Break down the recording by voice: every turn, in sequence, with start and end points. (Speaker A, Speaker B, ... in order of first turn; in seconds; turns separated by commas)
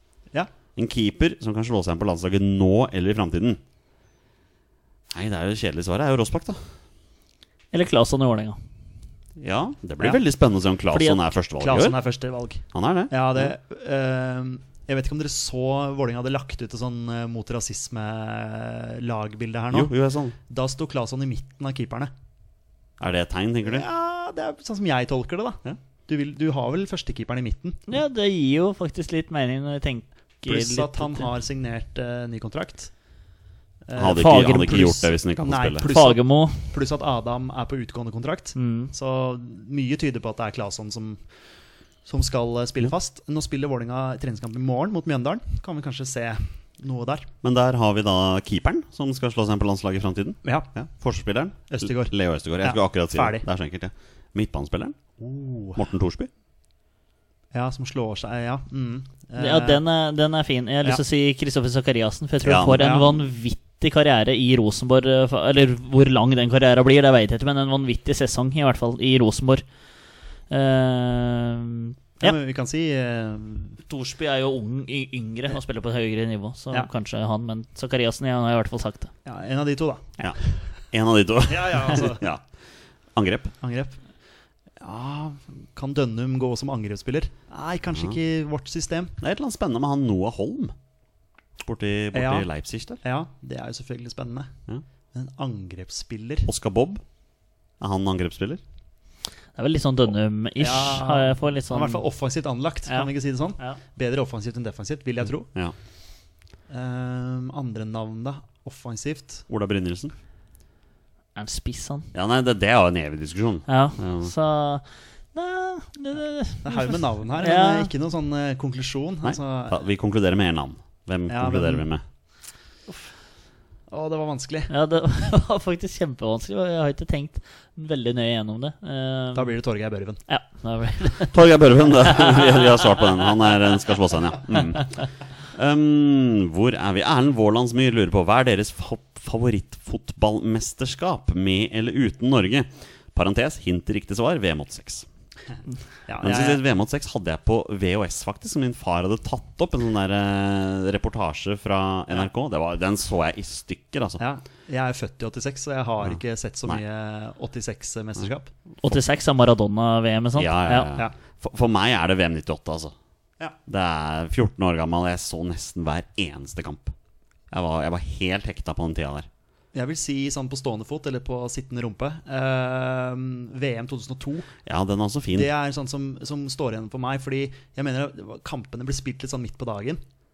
Speaker A: 0.8-3.6, Speaker A: 5.1-6.6, Speaker B: 7.7-8.6, Speaker A: 9.4-12.0, Speaker B: 10.9-11.2, Speaker C: 11.6-19.9, Speaker A: 12.7-13.5, Speaker A: 19.7-20.4, Speaker C: 20.5-22.1, Speaker A: 23.0-23.9, Speaker C: 23.6-27.8, Speaker B: 27.9-31.3, Speaker C: 30.5-32.9, Speaker C: 33.9-41.2, Speaker A: 34.0-35.9, Speaker B: 34.1-35.0, Speaker B: 35.8-36.6, Speaker B: 38.6-38.9, Speaker C: 42.1-47.3, Speaker A: 47.4-55.0, Speaker C: 50.4-50.7, Speaker C: 51.7-53.5, Speaker C: 55.2-55.8, Speaker A: 55.8-56.3, Speaker C: 57.5-59.8, Speaker B: 59.4-69.6, Speaker A: 62.4-62.8, Speaker C: 62.7-63.2, Speaker B: 70.5-72.3, Speaker C: 72.2-73.8, Speaker B: 73.9-79.1, Speaker C: 79.3-80.2, Speaker A: 80.9-82.4, Speaker C: 81.5-82.3, Speaker A: 83.2-83.5, Speaker C: 83.6-84.0, Speaker C: 84.8-89.1, Speaker A: 89.2-90.7, Speaker A: 91.6-93.0, Speaker C: 92.1-92.5, Speaker C: 93.0-94.5, Speaker C: 95.1-96.5, Speaker A: 96.5-97.0, Speaker A: 97.8-98.6, Speaker B: 99.6-102.0, Speaker C: 100.6-105.5, Speaker B: 102.9-103.8, Speaker C: 106.7-109.5, Speaker A: 109.5-110.1, Speaker B: 111.3-112.1, Speaker A: 112.1-114.3, Speaker B: 113.7-117.9, Speaker C: 116.7-119.8, Speaker A: 119.2-122.0, Speaker C: 121.3-121.9, Speaker C: 123.9-124.7, Speaker B: 124.7-129.5, Speaker C: 129.3-130.2, Speaker B: 130.3-131.3, Speaker A: 131.3-134.9, Speaker B: 132.1-132.7, Speaker A: 135.5-145.1, Speaker C: 146.1-146.6, Speaker A: 146.2-154.2, Speaker C: 154.2-158.5, Speaker A: 156.0-156.8, Speaker B: 158.8-160.9, Speaker A: 160.4-162.9, Speaker A: 163.7-166.9, Speaker A: 167.5-169.3, Speaker C: 169.7-174.5, Speaker A: 174.7-175.5, Speaker C: 175.3-180.0